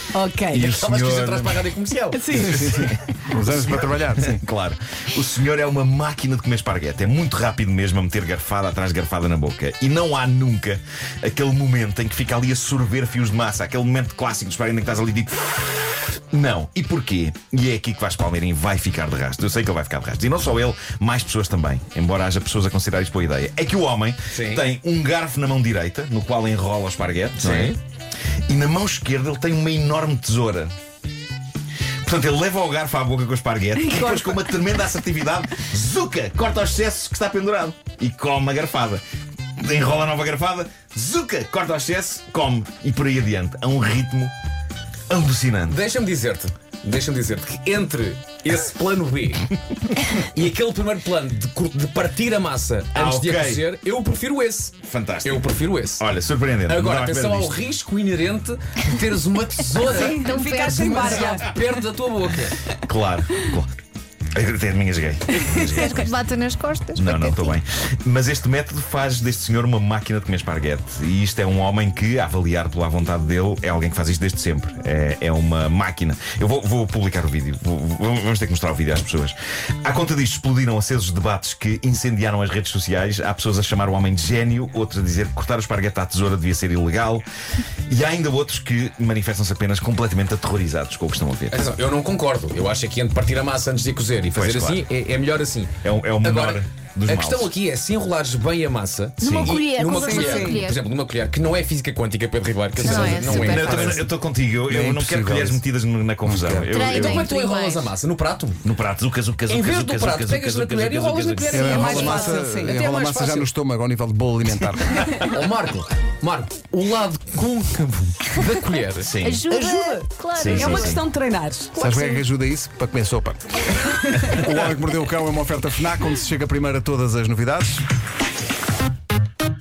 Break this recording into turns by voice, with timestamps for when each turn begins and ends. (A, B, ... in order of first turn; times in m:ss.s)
0:00.1-0:00.7 A
0:00.5-0:01.6 B
0:00.6-0:02.4 C
0:02.1-0:02.6 A
0:02.3-0:04.4 D
0:02.3-0:27.8 B
0:24.3-0:24.6 C
0:27.4-0:27.8 C
0:28.5-0:30.7 B
0:32.0-0:39.0 B
0:33.8-0:34.4 A
0:39.6-0:44.3 B
0:45.1-0:45.8 B
0:45.7-0:49.5 C
0:50.2-0:56.1 C
0:52.9-0:53.6 B
0:54.8-0:57.6 B
0:56.7-1:02.6 C
0:59.9-1:01.5 A
1:00.0-1:01.4 E
1:02.8-1:03.8 B
1:04.3-1:06.2 B
1:05.6-1:07.6 E
1:07.0-1:27.2 B
1:27.9-1:31.6 B
1:31.5-1:44.0 C
1:34.3-1:34.9 B
1:35.8-1:37.5 B
1:39.2-1:40.8 E
1:39.2-1:39.6 B
1:39.9-1:40.7 A
1:42.8-1:44.0 E
1:42.8-1:47.3 B
1:44.7-1:45.6 D
1:46.2-1:46.8 D
1:46.7-1:47.9 E
1:46.8-1:48.6 C
1:48.6-1:52.1 B
1:49.5-1:53.5 C
1:51.5-1:55.2 D
1:51.6-1:52.8 A
1:55.2-1:59.1 C
1:59.0-1:59.4 B
1:59.2-2:01.0 E
1:59.5-2:02.2 A
2:00.4-2:01.0 B
2:01.8-2:07.8 D